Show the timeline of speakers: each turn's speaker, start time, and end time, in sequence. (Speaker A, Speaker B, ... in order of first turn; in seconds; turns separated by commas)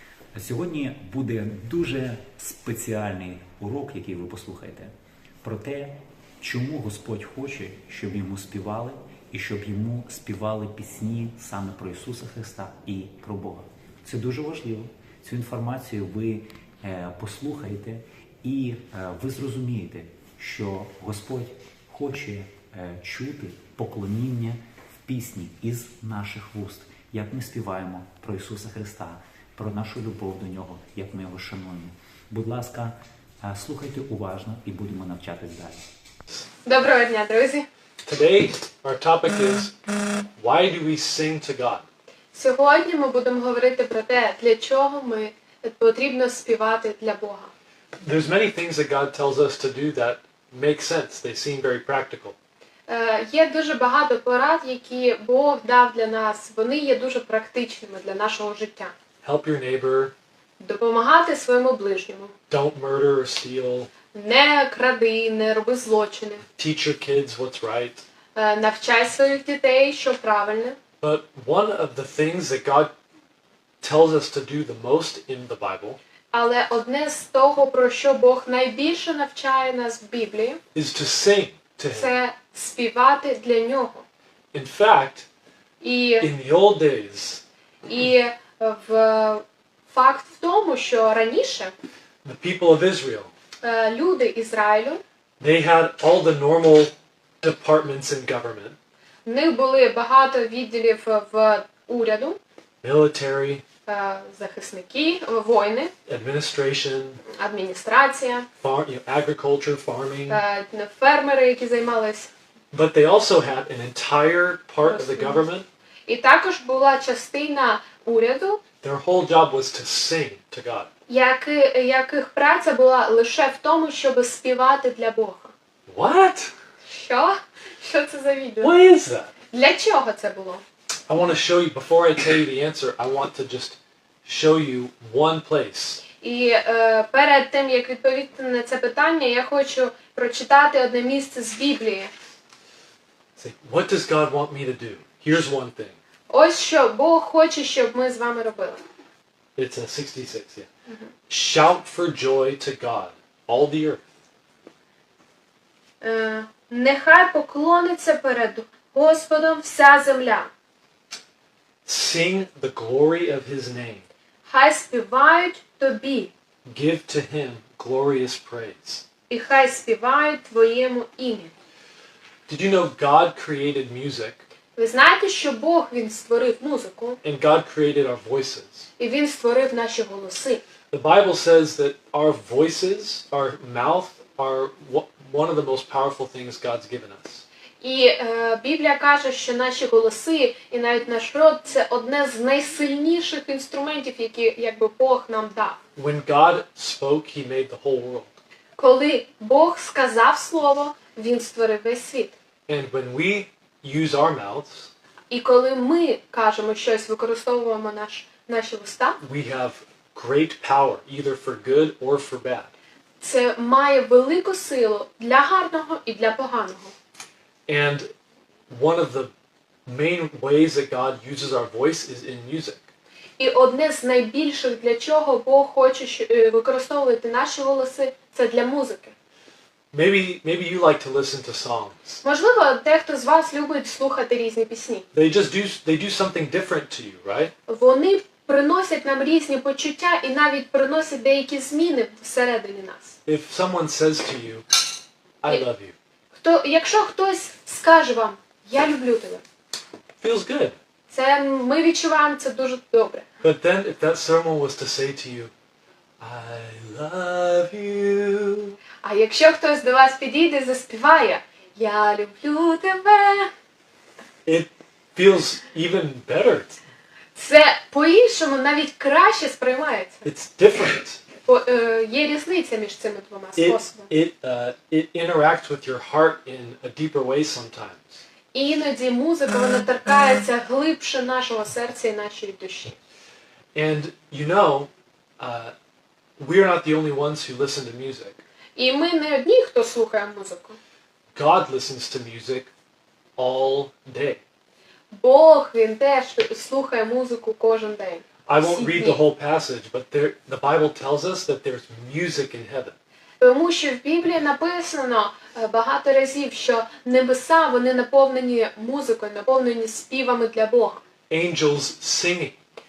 Speaker A: 0.3-4.9, Speaker A: 5.4-35.8, Speaker B: 36.6-37.7, Speaker C: 38.0-39.7, Speaker C: 40.4-41.9, Speaker B: 42.3-47.5, Speaker C: 48.0-52.4, Speaker B: 52.9-59.0, Speaker C: 59.2-60.1, Speaker B: 60.6-62.3, Speaker C: 62.5-63.9, Speaker B: 64.1-66.5, Speaker C: 66.5-68.0, Speaker B: 68.3-70.8, Speaker C: 71.0-72.9, Speaker C: 73.8-76.0, Speaker B: 76.3-80.6, Speaker C: 80.8-82.2, Speaker B: 81.9-84.0, Speaker C: 84.5-85.3, Speaker B: 85.8-86.3, Speaker C: 86.2-87.4, Speaker B: 87.9-91.7, Speaker C: 92.2-93.3, Speaker B: 93.6-95.0, Speaker C: 95.4-98.8, Speaker B: 99.3-102.4, Speaker C: 102.8-103.6, Speaker B: 103.9-105.9, Speaker C: 106.1-107.2, Speaker B: 107.3-108.5, Speaker C: 108.6-110.4, Speaker B: 110.3-112.3, Speaker C: 112.7-115.7, Speaker B: 114.8-115.5, Speaker B: 116.1-118.6, Speaker C: 118.8-120.9, Speaker B: 121.1-125.5, Speaker C: 125.9-126.5, Speaker B: 126.9-128.8, Speaker C: 128.6-129.3, Speaker B: 129.5-130.6, Speaker C: 131.1-136.0, Speaker B: 136.1-142.1, Speaker C: 143.4-146.0, Speaker B: 146.3-148.8, Speaker C: 149.6-150.7, Speaker C: 151.3-154.0, Speaker B: 156.0-160.5, Speaker C: 161.8-164.1, Speaker B: 164.4-166.3, Speaker C: 166.7-169.1, Speaker B: 169.3-171.5, Speaker C: 172.5-174.4, Speaker B: 174.8-177.2, Speaker C: 177.2-178.9, Speaker B: 179.0-180.6, Speaker C: 180.9-187.4, Speaker B: 187.8-195.8, Speaker C: 196.0-198.4, Speaker B: 198.8-202.3, Speaker C: 202.7-204.9, Speaker B: 205.3-209.2, Speaker C: 209.2-212.7, Speaker B: 213.2-216.9, Speaker C: 217.7-218.1, Speaker C: 218.7-219.3, Speaker C: 219.9-222.9, Speaker B: 223.4-229.1, Speaker C: 229.9-232.2, Speaker B: 232.2-235.1, Speaker C: 235.1-237.5, Speaker B: 237.7-243.2, Speaker C: 243.3-244.7, Speaker C: 245.4-245.9, Speaker B: 246.3-249.4, Speaker C: 250.2-250.8, Speaker B: 251.1-253.3, Speaker C: 253.4-255.5, Speaker C: 256.2-258.8, Speaker B: 259.0-263.5, Speaker C: 264.5-266.8, Speaker B: 267.4-270.3, Speaker C: 270.3-271.2, Speaker B: 271.4-274.1, Speaker C: 273.6-278.2, Speaker B: 278.5-283.0, Speaker C: 283.8-285.7, Speaker C: 286.4-288.4, Speaker B: 288.8-290.8, Speaker C: 291.4-292.7, Speaker C: 293.4-294.4, Speaker B: 295.1-299.2, Speaker C: 298.5-303.0, Speaker B: 303.4-311.0, Speaker C: 311.3-312.6